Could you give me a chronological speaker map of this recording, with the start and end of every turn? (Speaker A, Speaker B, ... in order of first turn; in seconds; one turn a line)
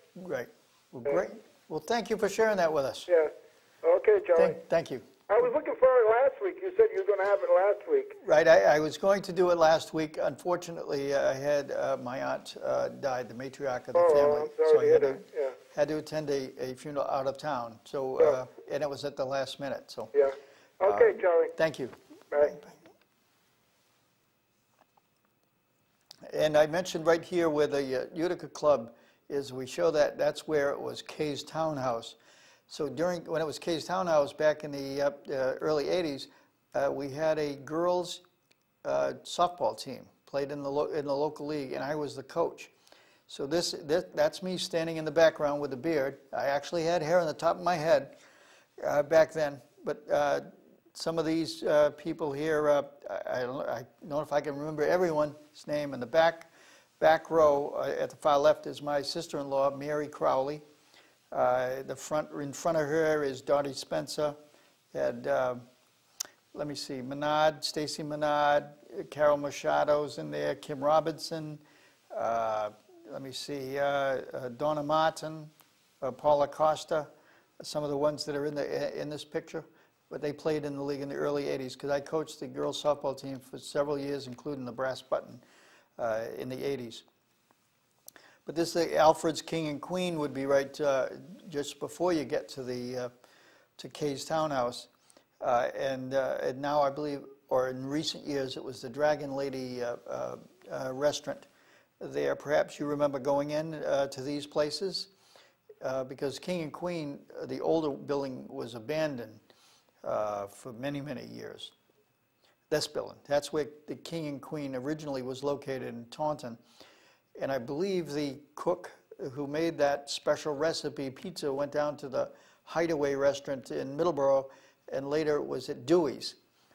Speaker A: 0.2-3.1
Speaker B: 3.8-4.6
Speaker A: 4.3-5.0
Speaker B: 5.3-8.2
Speaker A: 8.2-20.1
Speaker B: 13.9-15.6
Speaker B: 20.1-21.5
Speaker A: 20.8-22.7
Speaker B: 22.3-22.6
Speaker A: 26.3-32.2
Speaker A: 32.7-38.2
Speaker A: 38.8-42.7
Speaker A: 43.3-48.1
Speaker A: 48.8-60.6
Speaker A: 61.3-64.4
Speaker A: 64.9-65.6
Speaker A: 66.5-85.4
Speaker A: 86.0-87.0
Speaker A: 88.5-93.1
Speaker A: 93.8-94.9
Speaker A: 95.4-101.5
Speaker A: 102.0-105.1
Speaker A: 105.8-109.4
Speaker A: 110.0-111.7
Speaker A: 112.7-116.6
Speaker A: 117.4-126.4